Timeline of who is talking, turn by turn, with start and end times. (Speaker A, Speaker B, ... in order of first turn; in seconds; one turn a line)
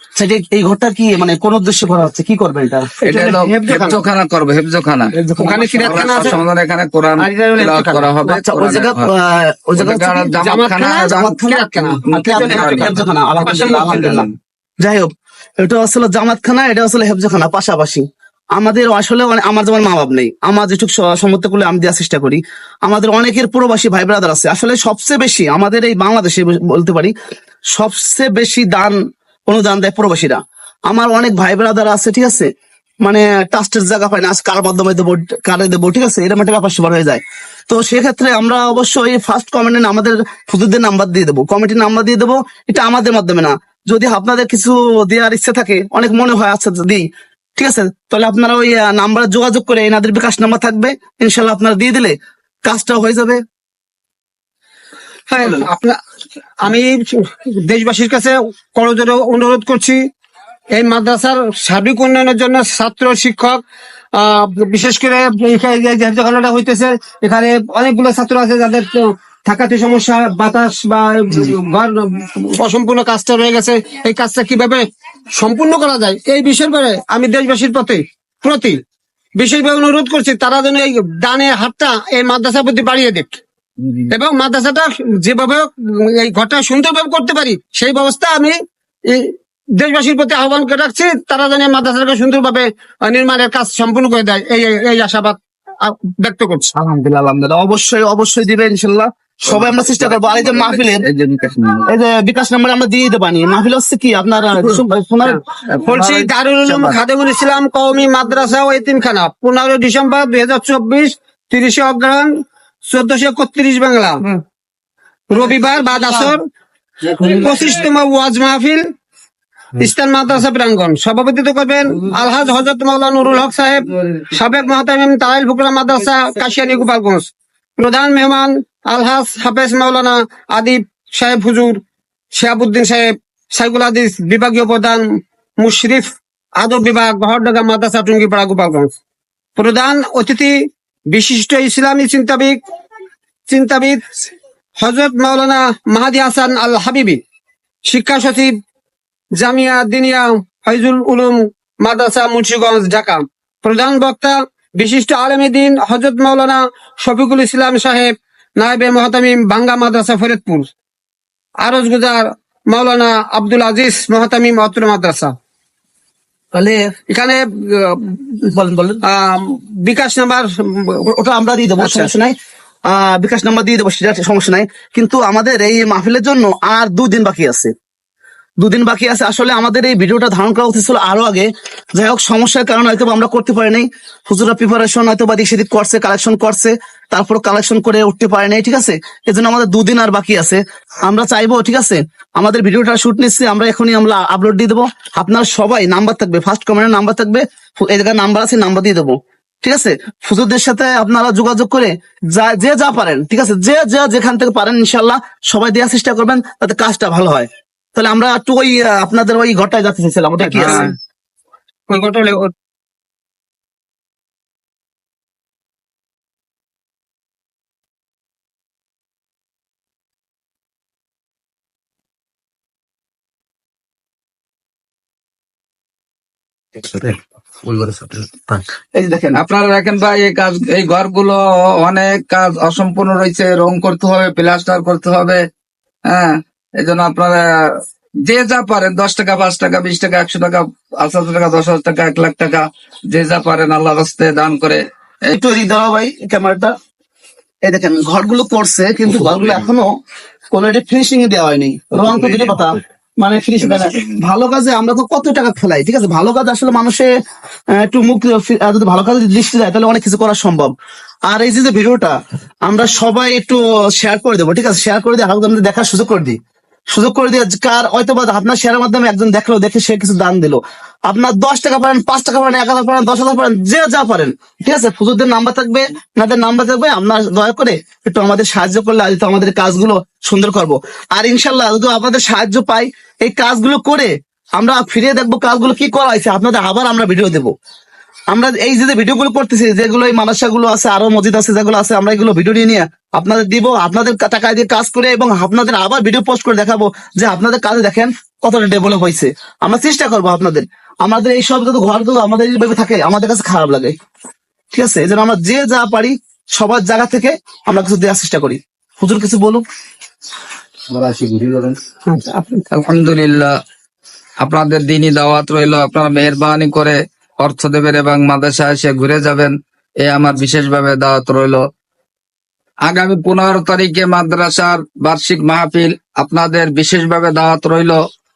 Speaker A: 0.2-4.0
Speaker B: 3.0-5.1
Speaker A: 5.2-6.4
Speaker C: 5.4-6.4
Speaker B: 5.8-9.1
Speaker A: 7.2-10.3
Speaker B: 9.8-11.3
Speaker C: 10.4-14.3
Speaker A: 11.1-14.3
Speaker B: 11.9-13.1
Speaker A: 14.8-27.1
Speaker A: 27.7-32.5
Speaker A: 33.0-47.0
Speaker A: 47.6-53.4
Speaker C: 55.3-56.0
Speaker C: 56.6-60.0
Speaker C: 60.7-63.6
Speaker C: 64.1-78.8
Speaker C: 79.4-83.4
Speaker B: 83.8-84.1
Speaker C: 84.1-96.7
Speaker A: 96.8-101.0
Speaker B: 99.5-101.9
Speaker A: 101.9-105.4
Speaker C: 105.3-114.3
Speaker B: 105.7-106.0
Speaker A: 106.0-107.0
Speaker C: 115.3-116.4
Speaker C: 117.0-118.9
Speaker C: 119.8-131.8
Speaker C: 132.3-135.1
Speaker C: 135.6-138.9
Speaker C: 139.6-142.6
Speaker C: 143.5-144.2
Speaker C: 144.8-147.2
Speaker C: 147.8-148.6
Speaker C: 149.3-160.7
Speaker C: 161.6-165.3
Speaker A: 166.5-166.9
Speaker C: 167.1-168.5
Speaker A: 168.5-169.0
Speaker C: 169.1-171.1
Speaker A: 171.1-172.3
Speaker C: 171.8-172.1
Speaker A: 172.9-177.7
Speaker A: 178.6-210.9
Speaker C: 210.4-210.9
Speaker C: 211.9-212.5
Speaker A: 229.0-229.4
Speaker B: 229.3-235.4
Speaker B: 236.1-245.3
Speaker A: 245.3-246.7
Speaker A: 247.7-249.9
Speaker A: 250.5-257.1
Speaker A: 257.8-260.7
Speaker A: 261.3-266.4
Speaker A: 266.9-287.5
Speaker A: 288.3-303.9
Speaker A: 304.7-309.6
Speaker B: 310.9-311.8
Speaker C: 312.1-312.6
Speaker B: 312.7-313.5
Speaker B: 314.4-321.6
Speaker B: 322.9-328.0